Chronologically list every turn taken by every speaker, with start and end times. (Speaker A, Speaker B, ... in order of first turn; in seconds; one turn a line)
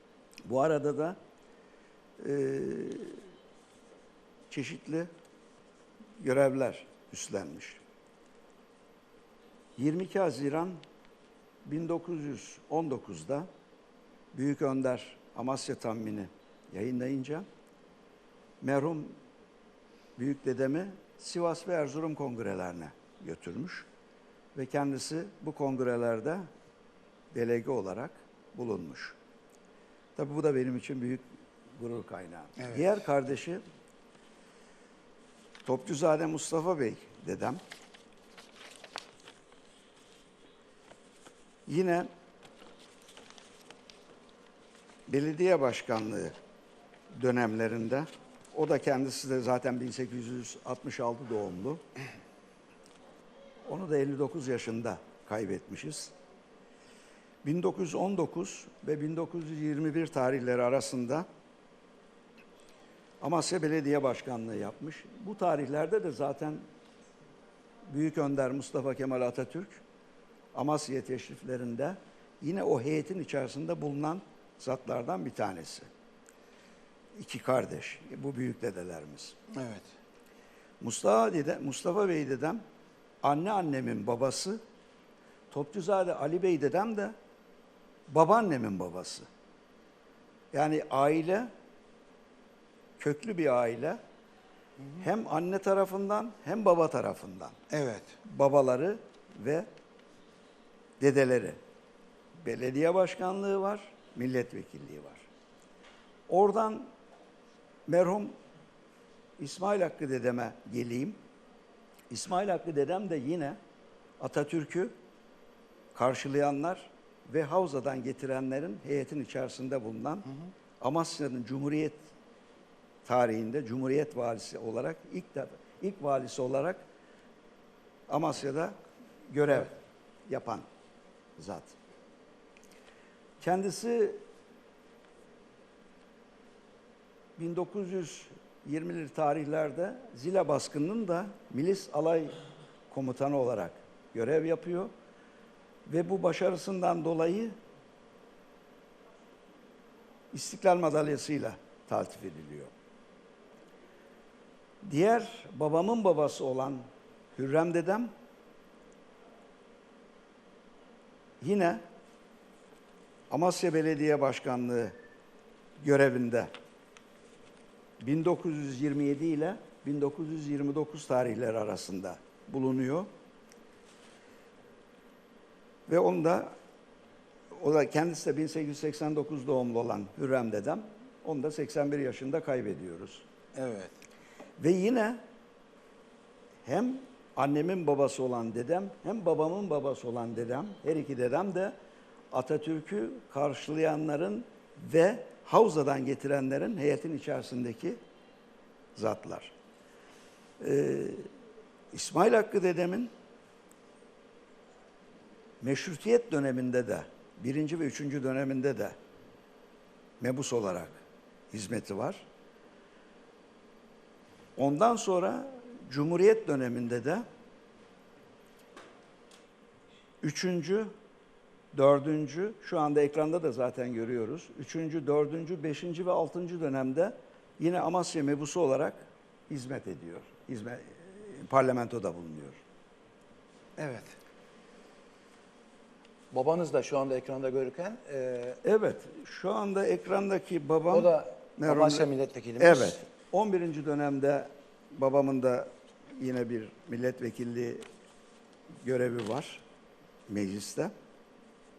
Speaker A: 0.5-1.2
Speaker A: 2.2-3.2
Speaker A: 4.5-5.1
Speaker A: 6.2-7.8
Speaker A: 9.8-10.8
Speaker A: 11.6-13.5
Speaker A: 14.3-17.4
Speaker A: 18.6-19.1
Speaker A: 20.1-23.9
Speaker A: 24.5-26.5
Speaker A: 27.3-29.2
Speaker A: 30.1-33.6
Speaker B: 32.6-32.8
Speaker A: 35.6-37.6
Speaker A: 41.6-42.1
Speaker A: 45.1-46.3
Speaker A: 47.1-51.8
Speaker A: 53.7-56.1
Speaker A: 57.4-61.2
Speaker A: 63.2-66.6
Speaker A: 67.9-69.8
Speaker A: 70.5-75.9
Speaker A: 77.1-79.3
Speaker B: 79.5-79.9
Speaker A: 80.8-82.6
Speaker A: 83.2-84.6
Speaker A: 85.5-87.1
Speaker A: 88.1-89.3
Speaker A: 90.5-91.5
Speaker A: 93.0-94.0
Speaker A: 95.0-97.5
Speaker B: 97.7-98.2
Speaker A: 98.2-99.7
Speaker A: 101.0-101.6
Speaker A: 102.4-105.3
Speaker A: 106.3-106.9
Speaker A: 107.9-108.3
Speaker A: 109.4-111.2
Speaker A: 112.1-113.6
Speaker A: 114.2-114.9
Speaker A: 115.9-122.0
Speaker A: 123.0-126.8
Speaker A: 128.1-128.7
Speaker A: 129.3-130.6
Speaker A: 131.4-131.8
Speaker A: 133.4-134.2
Speaker A: 137.4-142.4
Speaker A: 142.9-144.9
Speaker A: 145.8-147.5
Speaker A: 150.3-152.7
Speaker A: 154.8-158.1
Speaker A: 161.4-161.8
Speaker A: 163.3-164.9
Speaker A: 165.8-166.5
Speaker A: 168.0-173.1
Speaker A: 175.9-176.5
Speaker A: 177.5-183.2
Speaker B: 183.5-184.0
Speaker A: 184.6-185.2
Speaker A: 186.6-191.7
Speaker A: 192.3-198.0
Speaker A: 198.9-199.5
Speaker A: 200.6-201.3
Speaker A: 201.9-203.1
Speaker A: 205.6-208.9
Speaker A: 210.2-212.3
Speaker A: 214.6-217.2
Speaker A: 220.2-220.9
Speaker A: 221.7-232.6
Speaker B: 233.8-234.2
Speaker B: 236.3-238.6
Speaker A: 238.6-242.1
Speaker B: 240.9-243.0
Speaker A: 242.6-247.8
Speaker A: 248.8-249.6
Speaker A: 250.3-250.9